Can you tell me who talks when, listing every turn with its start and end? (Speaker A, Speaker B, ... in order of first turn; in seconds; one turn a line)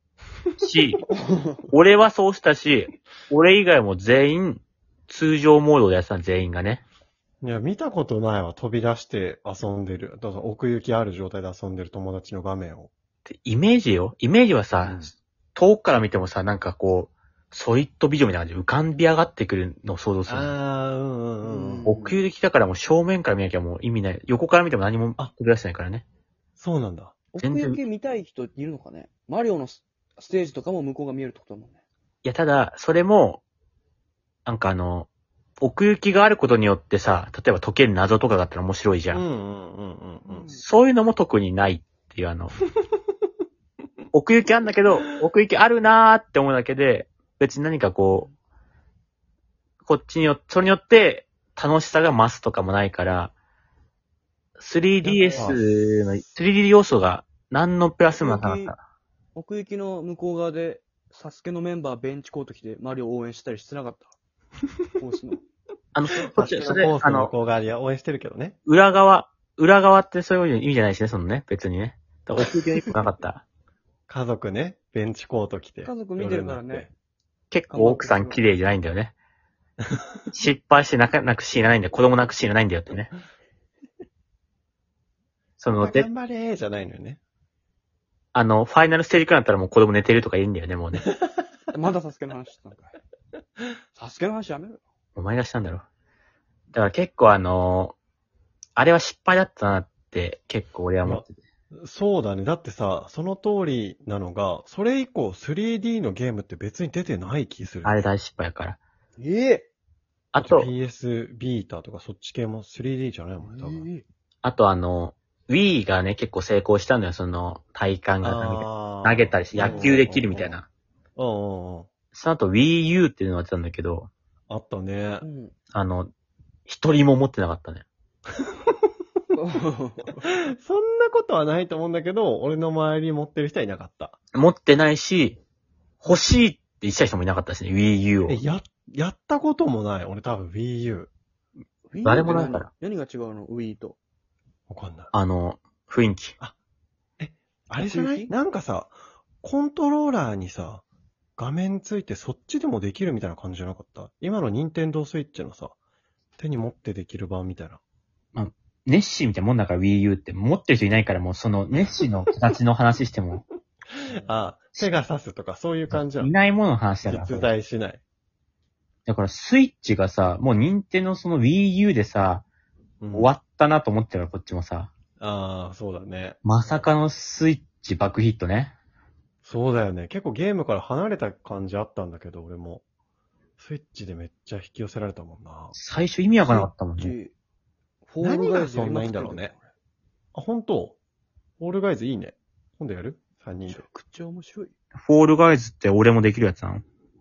Speaker A: 0.6-1.0
Speaker B: 1.1-1.6
Speaker A: 1.7-6.8
Speaker C: 7.4-12.9
Speaker A: 13.3-20.5
Speaker C: 14.8-15.1
Speaker C: 20.3-21.9
Speaker B: 21.4-22.2
Speaker A: 21.9-26.0
Speaker C: 26.6-27.2
Speaker B: 27.3-31.8
Speaker A: 27.4-27.8
Speaker A: 32.2-33.4
Speaker A: 34.4-35.1
Speaker A: 35.6-39.2
Speaker C: 39.1-40.5
Speaker B: 40.2-40.6
Speaker A: 40.5-42.5
Speaker A: 44.1-48.3
Speaker A: 49.8-53.3
Speaker A: 54.6-58.8
Speaker C: 55.0-55.6
Speaker B: 55.2-55.6
Speaker B: 58.2-58.7
Speaker B: 59.3-64.1
Speaker B: 65.0-65.4
Speaker A: 65.9-67.3
Speaker C: 66.3-68.6
Speaker A: 68.7-73.4
Speaker C: 74.1-76.9
Speaker B: 75.8-76.9
Speaker A: 77.5-79.1
Speaker B: 77.7-78.4
Speaker A: 80.3-83.1
Speaker A: 85.6-86.1
Speaker C: 85.7-87.2
Speaker A: 88.3-91.1
Speaker B: 91.7-93.0
Speaker B: 93.9-94.8
Speaker A: 95.2-95.8
Speaker A: 96.7-98.0
Speaker A: 98.8-101.4
Speaker C: 101.0-108.1
Speaker A: 107.8-108.8
Speaker B: 109.2-109.7
Speaker A: 110.3-110.7
Speaker C: 110.4-113.9
Speaker B: 113.4-114.0
Speaker A: 114.4-120.7
Speaker C: 118.2-120.6
Speaker B: 119.5-120.0
Speaker C: 121.2-121.9
Speaker A: 122.1-124.1
Speaker C: 124.5-125.2
Speaker B: 125.2-125.5
Speaker A: 125.7-126.1
Speaker A: 126.7-127.8
Speaker B: 129.3-130.2
Speaker C: 130.2-134.1
Speaker A: 134.3-135.4
Speaker A: 136.0-138.4
Speaker C: 138.2-141.1
Speaker B: 141.9-144.0
Speaker A: 142.0-142.7
Speaker C: 144.7-145.1
Speaker A: 145.1-146.3
Speaker C: 147.2-150.8
Speaker B: 147.8-148.3
Speaker C: 151.4-155.7
Speaker C: 156.4-157.8
Speaker A: 158.3-163.4
Speaker C: 164.0-166.3
Speaker A: 165.9-167.5
Speaker C: 167.0-168.0
Speaker A: 169.1-172.4
Speaker C: 173.0-173.3
Speaker A: 173.1-174.9
Speaker C: 175.2-176.9
Speaker A: 176.4-178.7
Speaker C: 179.4-182.8
Speaker C: 183.6-185.7
Speaker A: 185.7-187.1
Speaker B: 186.4-187.3
Speaker B: 188.1-189.7
Speaker C: 188.2-189.5
Speaker C: 190.3-191.0
Speaker C: 191.6-193.8
Speaker B: 193.7-194.7
Speaker A: 195.0-196.8